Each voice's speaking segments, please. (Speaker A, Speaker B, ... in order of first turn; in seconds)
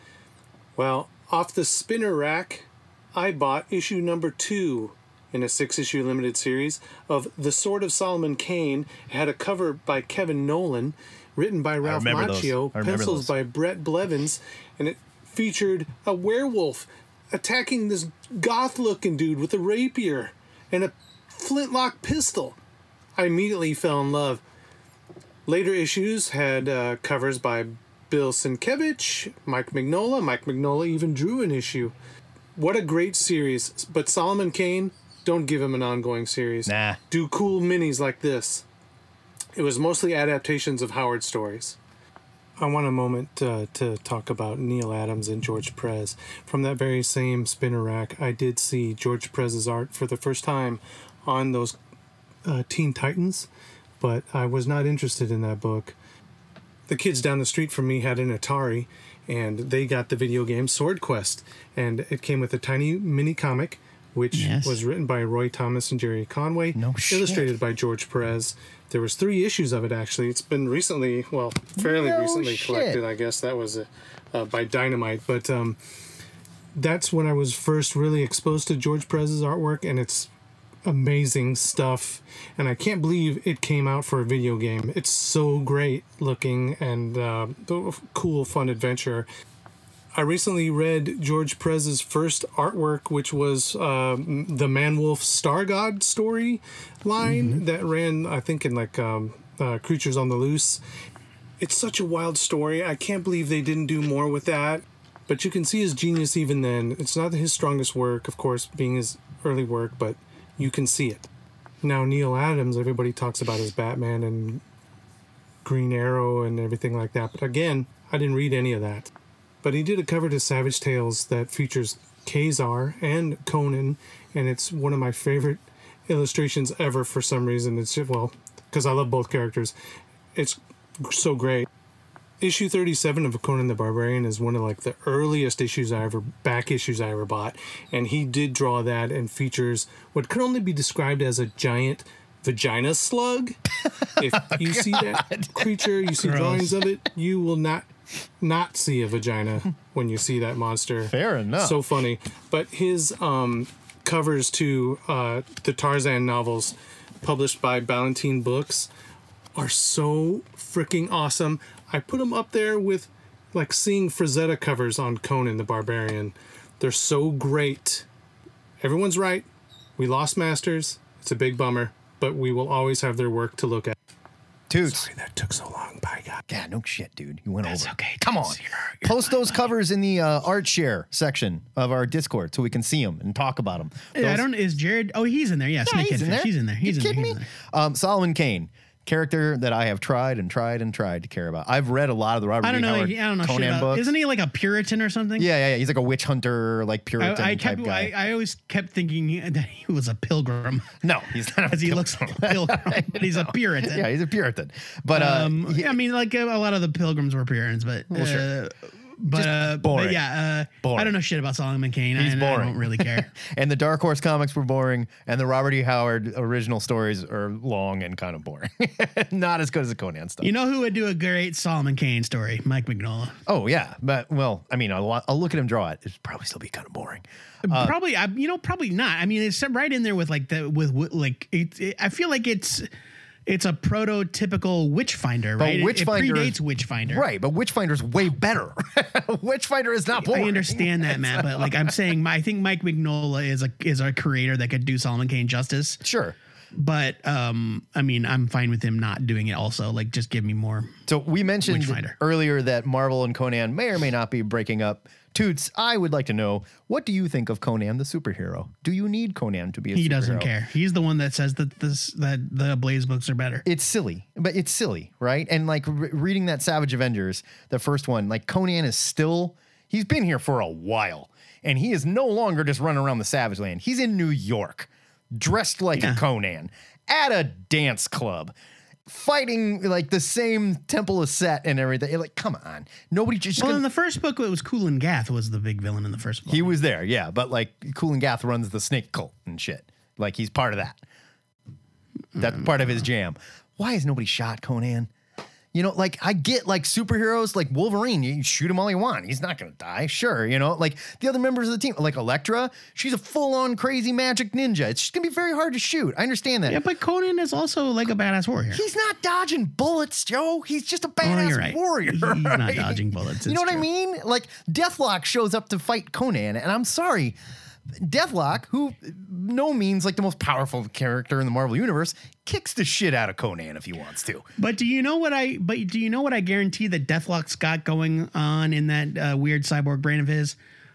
Speaker A: 0.7-22.6, 23.1-24.4, 25.4-31.9, 32.5-38.6, 39.5-41.8, 42.6-51.8, 52.4-53.5, 54.0-56.0, 56.9-75.8, 76.7-80.3, 80.8-89.3, 90.1-100.8, 101.6-111.3, 111.8-114.6, 115.6-119.1, 119.6-129.7, 130.3-131.7, 132.4-143.6, 144.2-147.9, 148.4-158.9, 159.5-168.1, 168.8-173.9, 174.8-176.4
Speaker B: 11.8-13.3, 36.7-37.0, 66.7-67.5, 71.8-73.0, 144.2-146.3, 151.1-151.8, 174.7-175.1, 176.5-184.4, 185.8-194.1, 195.4-198.1, 201.0-206.0, 208.1-208.5, 209.3-210.2, 210.8-211.1, 212.2-220.5, 223.5-227.9, 235.6-236.6, 237.1-241.8, 246.0-246.3, 251.1-260.5, 263.6-278.5, 279.1-283.8, 286.5-291.0, 292.4-295.1, 295.7-306.8, 308.7-317.4, 317.9-324.4
Speaker C: 64.3-64.8, 97.3-97.6, 146.3-146.7, 177.6-179.6, 184.1-187.5, 192.6-195.5, 197.2-200.9, 201.7-204.1, 205.1-213.3, 220.4-223.3, 227.6-232.9, 233.5-237.2, 240.2-246.0, 246.7-250.9, 251.6-252.2, 259.9-263.6, 283.6-286.7, 292.4-292.7, 306.7-308.8, 311.2-313.8, 324.6-330.6